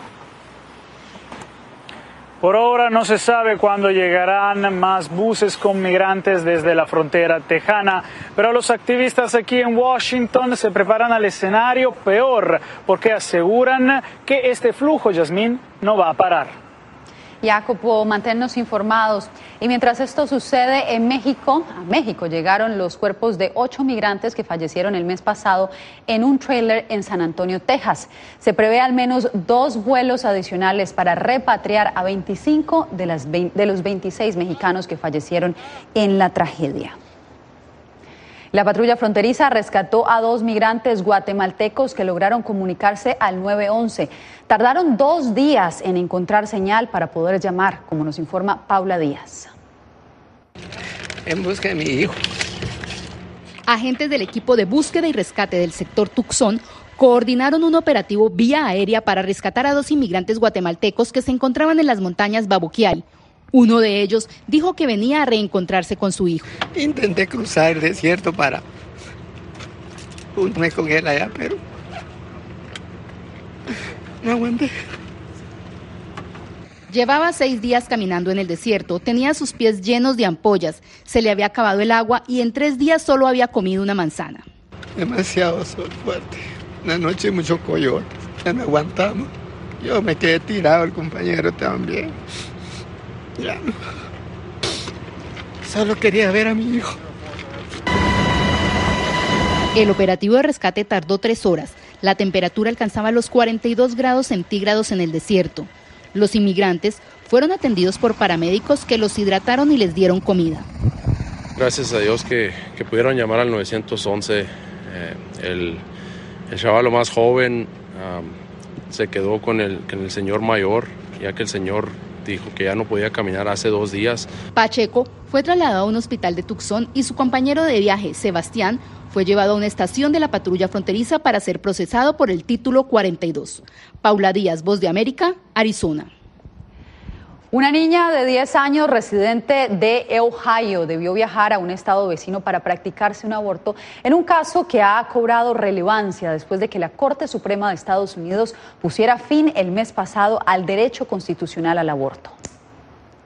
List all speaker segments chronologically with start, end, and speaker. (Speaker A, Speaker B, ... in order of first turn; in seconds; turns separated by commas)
Speaker A: 2.4-16.6, Speaker B: 17.4-37.0, Speaker B: 38.5-49.5, Speaker C: 51.3-52.1, Speaker D: 53.7-66.5, Speaker C: 66.7-68.6, Speaker C: 70.4-71.6, Speaker C: 74.2-74.7, Speaker D: 76.9-84.5, Speaker C: 85.0-89.3, Speaker C: 89.8-92.1, Speaker C: 93.4-93.7, Speaker C: 95.7-96.9, Speaker D: 99.7-110.7, Speaker E: 111.6-115.8, Speaker E: 116.5-118.4, Speaker E: 118.9-124.3, Speaker D: 124.5-136.1, Speaker B: 137.5-152.4